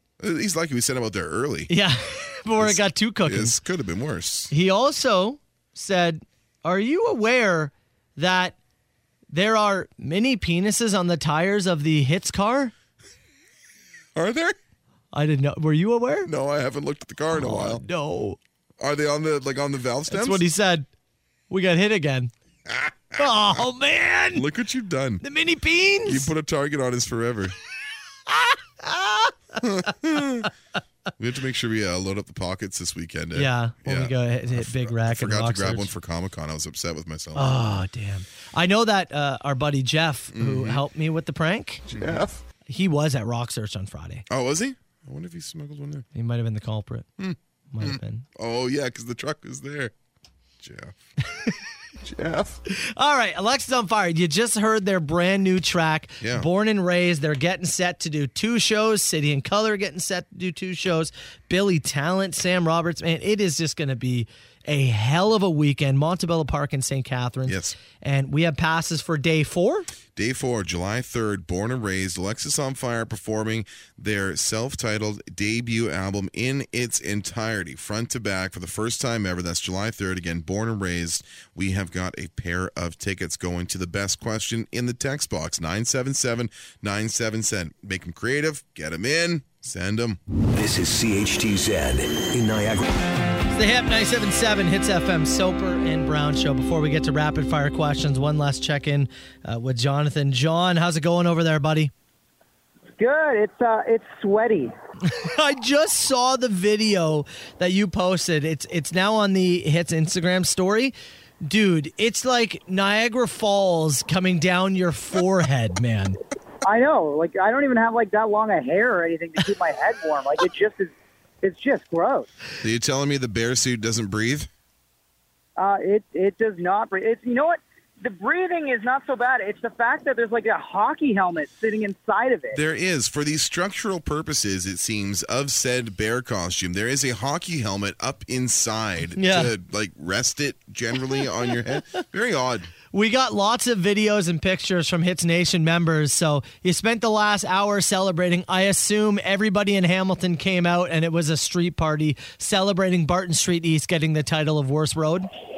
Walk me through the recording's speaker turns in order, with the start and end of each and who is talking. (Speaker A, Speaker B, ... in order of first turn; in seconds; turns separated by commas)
Speaker A: 0.2-1.7, Speaker B: 1.7-3.6, Speaker A: 2.6-4.5, Speaker B: 4.5-8.6, Speaker B: 9.3-12.7, Speaker A: 14.1-14.6, Speaker B: 15.1-16.3, Speaker A: 16.2-17.8, Speaker B: 17.3-18.4, Speaker A: 18.8-20.4, Speaker B: 20.1-20.9, Speaker B: 21.5-22.3, Speaker A: 22.7-23.3, Speaker B: 23.1-24.4, Speaker A: 24.3-25.2, Speaker B: 25.2-26.3, Speaker A: 26.0-27.5, Speaker B: 28.3-29.6, Speaker A: 29.6-30.5, Speaker A: 31.2-37.5, Speaker B: 33.3-35.9, Speaker B: 37.3-42.0, Speaker A: 40.3-40.8, Speaker A: 41.9-42.4, Speaker B: 42.6-44.2, Speaker A: 44.3-46.1, Speaker B: 46.1-47.1, Speaker A: 47.2-49.9, Speaker B: 47.7-48.2, Speaker A: 50.6-50.9, Speaker A: 52.0-52.6, Speaker B: 52.7-69.9, Speaker A: 56.2-56.5, Speaker A: 67.4-67.8, Speaker A: 70.1-90.2, Speaker C: 90.5-92.9, Speaker B: 93.5-101.9, Speaker D: 103.0-104.7, Speaker B: 105.0-116.2, Speaker D: 116.6-122.3, Speaker A: 122.6-124.5, Speaker D: 125.6-132.6, Speaker A: 132.5-142.7, Speaker B: 139.2-139.5, Speaker B: 142.9-155.3